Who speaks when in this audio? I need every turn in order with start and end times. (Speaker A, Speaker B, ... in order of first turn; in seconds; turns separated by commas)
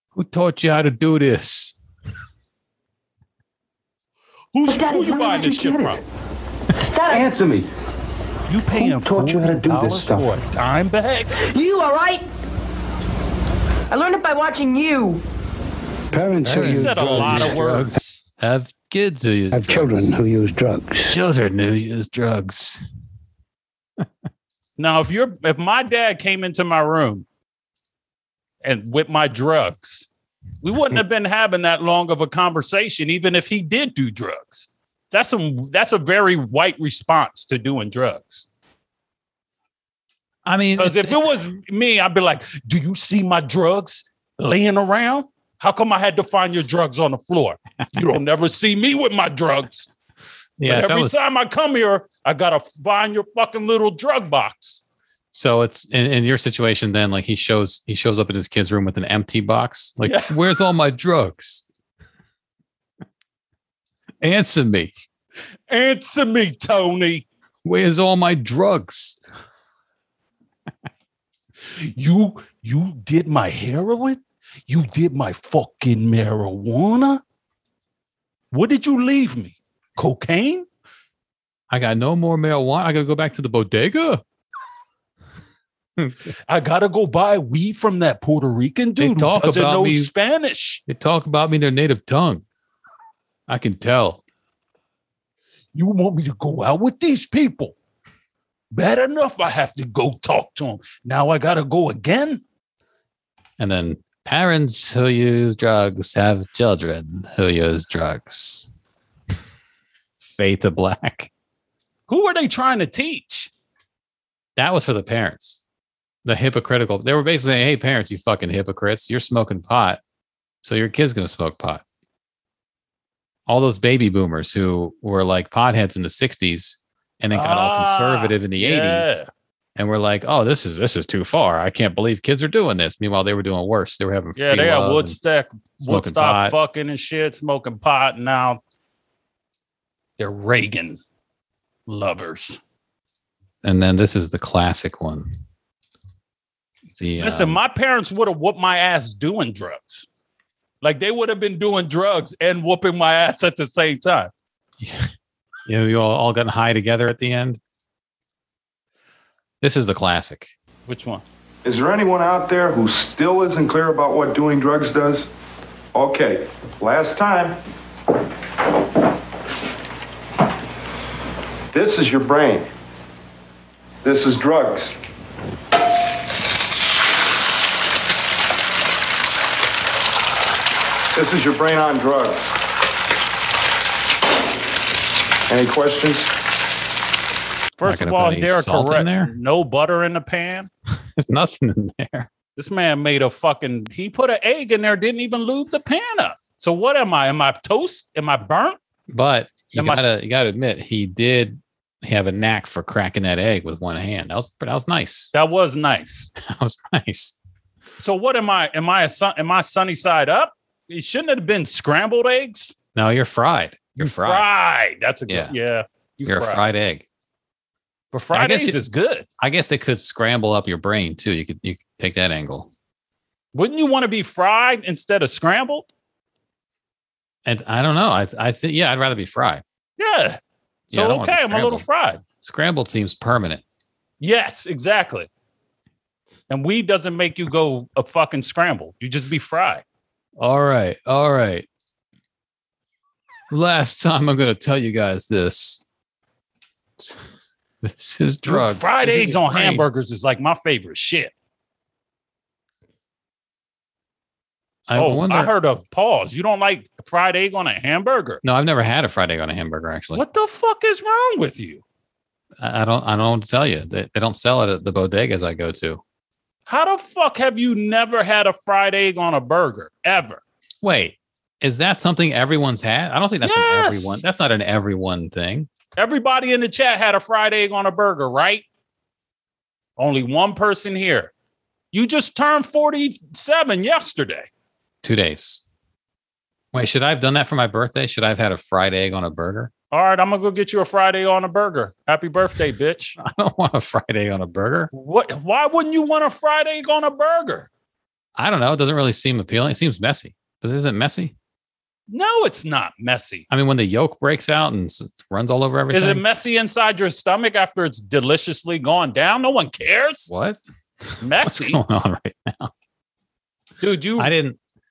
Speaker A: 0.1-1.8, Speaker B: 4.5-6.0, Speaker C: 4.7-5.7, Speaker D: 5.1-6.0, Speaker C: 6.8-7.3, Speaker D: 7.0-7.7, Speaker B: 8.5-11.4, Speaker D: 8.7-10.4, Speaker C: 11.4-12.2, Speaker C: 13.9-15.2, Speaker E: 16.1-17.9, Speaker A: 16.4-20.1, Speaker B: 16.6-18.0, Speaker E: 19.5-21.1, Speaker A: 21.1-22.8, Speaker B: 24.8-27.2, Speaker B: 28.6-30.1, Speaker B: 30.6-38.5, Speaker A: 40.5-41.2, Speaker B: 40.8-49.9, Speaker A: 50.6-51.2, Speaker B: 50.6-54.8, Speaker A: 55.3-61.6, Speaker B: 60.0-60.4, Speaker A: 64.2-64.9, Speaker B: 65.7-67.2, Speaker A: 67.6-69.2, Speaker B: 71.7-77.2, Speaker B: 78.5-80.7, Speaker A: 81.7-84.2, Speaker A: 86.0-86.3, Speaker B: 86.5-90.8, Speaker A: 89.0-90.1, Speaker A: 90.9-92.4, Speaker A: 93.5-94.2, Speaker B: 95.8-97.8, Speaker B: 98.7-102.4, Speaker A: 103.6-108.7, Speaker A: 110.2-111.3, Speaker B: 112.1-113.5, Speaker A: 114.5-115.6, Speaker A: 116.2-120.0, Speaker A: 120.6-121.8, Speaker A: 123.5-129.2, Speaker B: 127.3-129.3, Speaker A: 129.8-135.2, Speaker B: 134.4-138.6, Speaker A: 135.8-136.6, Speaker B: 140.2-141.0, Speaker B: 141.9-142.6, Speaker A: 143.6-145.3, Speaker A: 147.0-147.6, Speaker B: 147.2-150.1, Speaker B: 150.8-154.3, Speaker A: 154.8-155.1, Speaker A: 155.7-157.6, Speaker A: 159.6-160.5, Speaker B: 160.9-161.2, Speaker F: 161.6-165.3, Speaker F: 165.9-167.6, Speaker F: 171.7-172.7, Speaker F: 174.0-174.9, Speaker F: 181.1-182.5, Speaker F: 185.5-186.3, Speaker B: 187.8-190.7, Speaker A: 187.8-189.3, Speaker A: 191.2-192.3, Speaker B: 192.6-198.8, Speaker A: 199.1-205.3, Speaker B: 199.7-200.1, Speaker B: 205.3-206.3, Speaker A: 206.4-207.4, Speaker B: 208.0-212.8, Speaker A: 212.9-214.4, Speaker B: 214.0-216.6, Speaker A: 215.3-215.6, Speaker A: 216.2-217.0, Speaker B: 218.1-219.3, Speaker A: 218.3-218.8, Speaker A: 219.4-222.7, Speaker B: 223.5-225.9, Speaker A: 227.4-229.6, Speaker B: 230.0-230.4, Speaker A: 230.9-231.9, Speaker B: 230.9-232.2, Speaker A: 232.4-233.6, Speaker B: 234.2-235.3, Speaker B: 236.5-239.8, Speaker A: 240.4-241.7, Speaker A: 243.5-245.8, Speaker A: 247.8-249.9, Speaker B: 248.4-251.3, Speaker A: 254.9-255.5, Speaker B: 254.9-258.4, Speaker A: 258.4-260.2, Speaker B: 260.1-261.8, Speaker A: 262.6-266.0, Speaker B: 266.7-270.4, Speaker A: 270.8-275.7, Speaker B: 273.4-274.2, Speaker B: 275.9-278.6, Speaker B: 280.0-281.3, Speaker B: 281.9-284.5, Speaker A: 285.0-285.6, Speaker A: 286.7-289.7, Speaker B: 289.9-293.2, Speaker A: 293.2-294.9, Speaker B: 294.9-297.7, Speaker A: 298.4-301.3, Speaker B: 302.1-303.4, Speaker A: 303.5-306.2, Speaker B: 305.9-310.3, Speaker A: 310.3-312.7, Speaker B: 311.2-311.8, Speaker B: 313.8-314.3, Speaker A: 314.2-314.6